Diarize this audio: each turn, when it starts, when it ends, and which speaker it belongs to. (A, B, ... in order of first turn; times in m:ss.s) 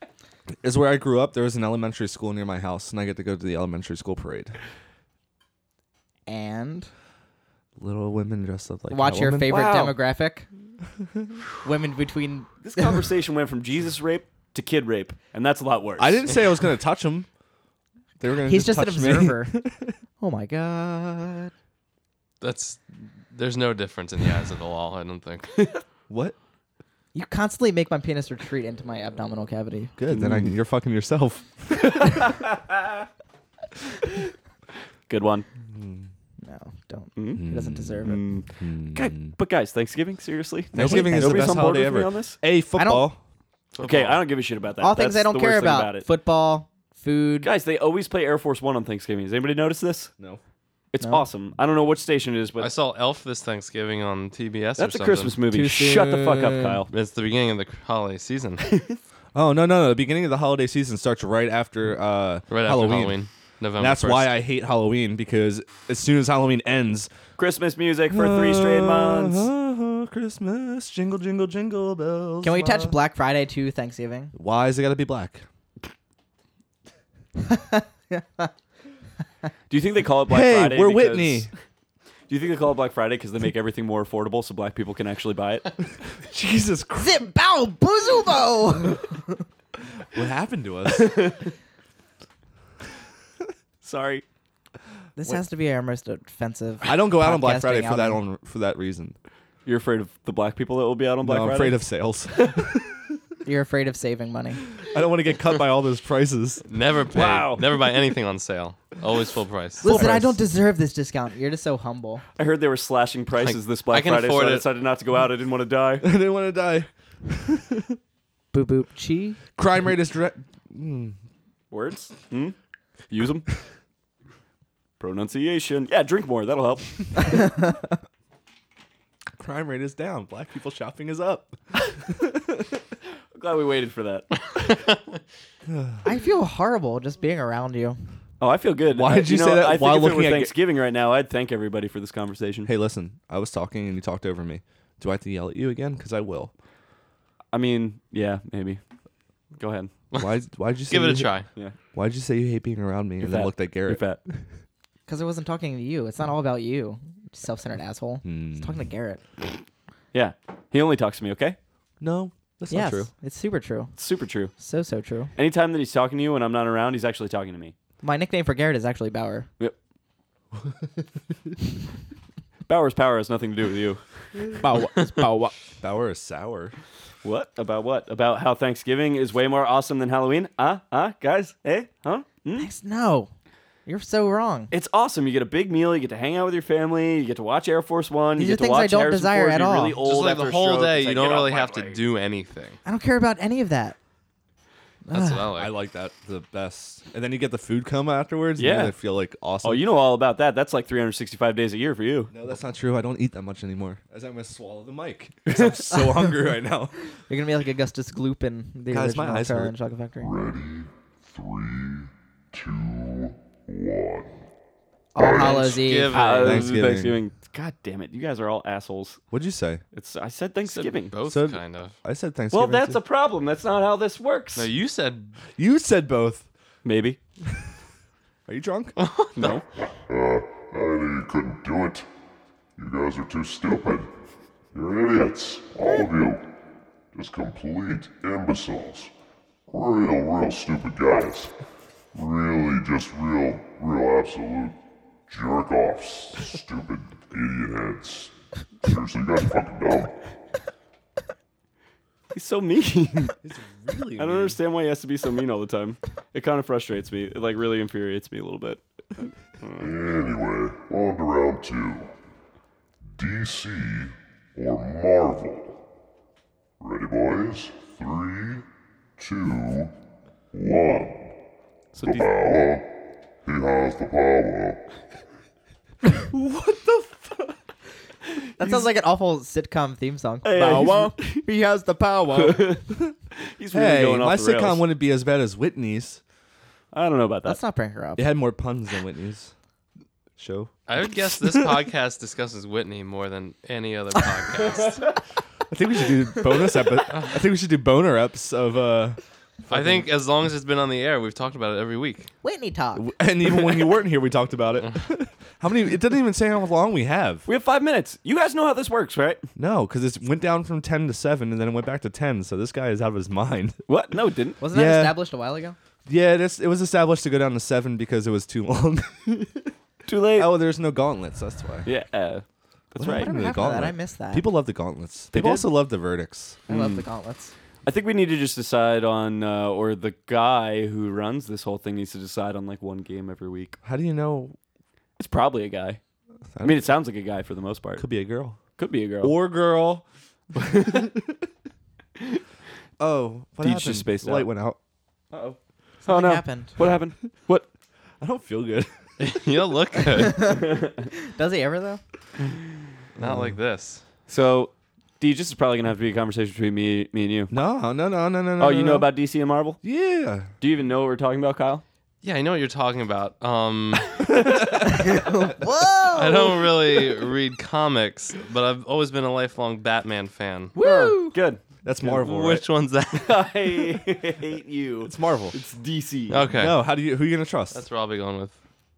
0:00.6-0:04.6 A
0:06.3-0:06.9 B
0:07.8-0:09.5 A
0:08.9-0:10.5 B
0:09.5-0:10.0 C
0:11.6-0:13.0 B
0:12.6-0:16.3 C
0:16.0-0:17.3 A
0:18.2-0:19.9 A
0:18.5-0:19.6 B
0:20.2-0:21.5 B
0:22.4-0:25.6 D
0:26.1-0:26.3 A
0:27.1-0:29.9 B
0:30.0-0:32.2 A
0:30.1-0:30.5 C
0:35.1-0:35.4 C
0:35.7-0:36.1 A
0:36.4-0:38.2 B
0:37.2-0:37.4 C
0:37.4-0:39.3 A
0:38.0-0:42.4 C
0:40.7-0:43.2 A
0:40.7-0:41.6 B
0:42.8-0:43.1 B
0:43.7-0:44.2 D
0:43.8-0:46.1 C
0:44.8-0:47.5 B
0:47.4-0:50.1 C
0:50.9-0:52.7 C
0:52.6-0:55.4 D
0:54.8-0:56.9 C
0:55.5-0:56.3 A
0:56.9-0:58.7 D
0:59.3-1:03.2 A
1:02.5-1:04.3 D
1:03.8-1:07.1 A
1:07.4-1:09.4 C
1:08.1-1:13.0 A
1:12.4-1:14.3 B
1:14.3-1:15.4 A
1:17.4-1:18.5 B
1:19.7-1:21.5 C
1:20.3-1:21.5 A
1:22.3-1:25.7 C
1:26.1-1:27.2 A
1:27.0-1:29.3 B
1:30.1-1:31.3 A
1:30.9-1:31.5 C
1:33.8-1:34.2 C
1:35.2-1:38.2 B
1:36.8-1:39.2 A
1:39.6-1:41.8 C
1:41.2-1:43.0 A
1:43.4-1:44.6 B
1:44.9-1:46.6 A
1:46.7-1:50.0 D
1:47.1-1:47.7 C
1:49.8-1:52.2 B
1:49.9-1:50.4 A
1:52.4-1:56.0 C
1:53.4-1:54.7 D
1:56.0-1:58.0 A
1:58.5-1:59.4 B
1:59.6-2:01.2 A
2:01.7-2:02.6 C
2:03.1-2:03.4 C
2:05.0-2:07.4 C
2:07.5-2:07.7 B
2:09.4-2:12.6 A
2:13.3-2:14.3 C
2:15.7-2:16.0 A
2:16.0-2:18.0 B
2:18.4-2:22.7 C
2:18.9-2:20.5 A
2:22.6-2:26.5 A
2:27.5-2:28.8 C
2:29.5-2:29.9 C
2:30.1-2:31.4 A
2:30.9-2:31.5 D
2:31.9-2:34.4 A
2:33.2-2:34.2 C
2:35.1-2:39.2 B
2:38.2-2:38.8 A
2:40.1-2:41.6 C
2:42.0-2:43.1 A
2:42.7-2:43.9 B
2:44.0-2:44.5 C
2:44.6-2:45.3 B
2:45.3-2:47.7 C
2:48.0-2:49.5 B
2:52.7-2:54.5 C
2:54.6-2:55.5 B
2:55.7-2:56.8 A
2:57.2-3:02.7 C
3:02.6-3:03.3 B
3:03.8-3:04.7 B
3:04.7-3:12.0 C
3:08.4-3:10.0 B
3:10.0-3:12.8 D
3:12.8-3:14.0 B
3:15.1-3:15.4 B
3:15.1-3:15.7 D
3:15.6-3:19.8 A
3:18.6-3:18.9 C
3:19.6-3:22.3 C
3:22.3-3:26.9 A
3:27.3-3:30.3 B
3:28.9-3:29.7 A
3:30.2-3:34.4 E
3:35.1-3:36.2 B
3:35.2-3:35.9 E
3:35.5-3:36.7 D
3:36.1-3:39.2 C
3:36.3-3:37.2 A
3:39.3-3:39.8 A
3:39.9-3:41.2 C
3:40.7-3:42.0 D
3:41.2-3:43.0 A
3:42.5-3:44.7 C
3:44.6-3:45.4 D
3:45.6-3:46.5 A
3:46.8-3:47.2 C
3:48.5-3:49.0 A
3:49.0-3:49.6 D
3:49.4-3:49.6 C
3:50.0-3:52.0 E
3:52.8-3:54.1 E
3:54.7-3:56.5 E
3:57.1-3:59.1 E
3:59.7-4:01.5 E
4:02.1-4:10.2 E
4:12.3-4:13.4 C
4:13.4-4:14.6 A
4:14.2-4:19.3 C
4:19.8-4:22.1 E
4:23.1-4:25.8 E
4:26.8-4:28.6 E
4:29.2-4:30.0 E
4:30.5-4:31.3 E
4:32.0-4:34.8 E
4:36.5-4:37.0 C
4:38.6-4:38.9 C
4:38.6-4:42.8 B
4:40.4-4:41.4 C
4:42.3-4:42.8 C
4:43.4-4:44.8 C
4:43.7-4:46.2 A
4:46.9-4:47.6 C
4:47.4-4:48.3 B
4:48.2-4:49.5 A
4:50.4-4:51.8 A
4:50.9-4:55.0 D
4:55.7-5:00.1 A
4:59.7-5:02.3 D
5:02.4-5:03.1 B
5:02.9-5:07.5 A
5:07.4-5:09.4 C
5:09.6-5:13.8 A
5:13.9-5:14.6 C
5:14.6-5:15.8 B
5:14.7-5:15.2 A
5:16.0-5:19.7 A
5:20.0-5:20.5 C
5:20.4-5:21.9 A
5:21.8-5:23.3 C
5:23.0-5:26.6 A
5:23.1-5:24.5 B
5:25.3-5:25.7 C
5:26.7-5:27.0 C
5:26.7-5:27.5 B
5:27.8-5:33.8 C
5:33.8-5:34.6 A
5:35.2-5:36.0 C
5:36.5-5:36.8 A
5:36.6-5:38.0 C
5:38.0-5:38.6 A
5:38.8-5:39.4 C
5:39.2-5:40.0 A
5:40.6-5:41.2 A
5:40.6-5:40.9 C
5:43.0-5:44.8 A
5:43.6-5:44.5 C
5:45.3-5:47.7 C
5:46.0-5:46.8 B
5:48.2-5:49.4 A
5:49.2-5:50.6 D
5:50.1-5:50.6 B
5:50.4-5:51.1 C
5:51.1-5:52.0 B
5:53.2-5:53.6 A
5:53.2-5:54.0 D
5:54.3-5:57.5 C
5:57.5-5:59.1 A
5:58.6-5:59.8 C
5:59.8-6:00.5 A
6:00.6-6:01.8 C
6:02.2-6:04.5 D
6:04.9-6:06.7 B
6:06.1-6:10.7 D
6:10.8-6:11.4 B
6:10.8-6:12.2 C
6:11.8-6:12.6 A
6:12.0-6:13.5 D
6:13.1-6:16.5 C
6:15.0-6:15.5 A
6:16.3-6:16.8 D
6:16.5-6:17.8 A
6:17.7-6:18.5 D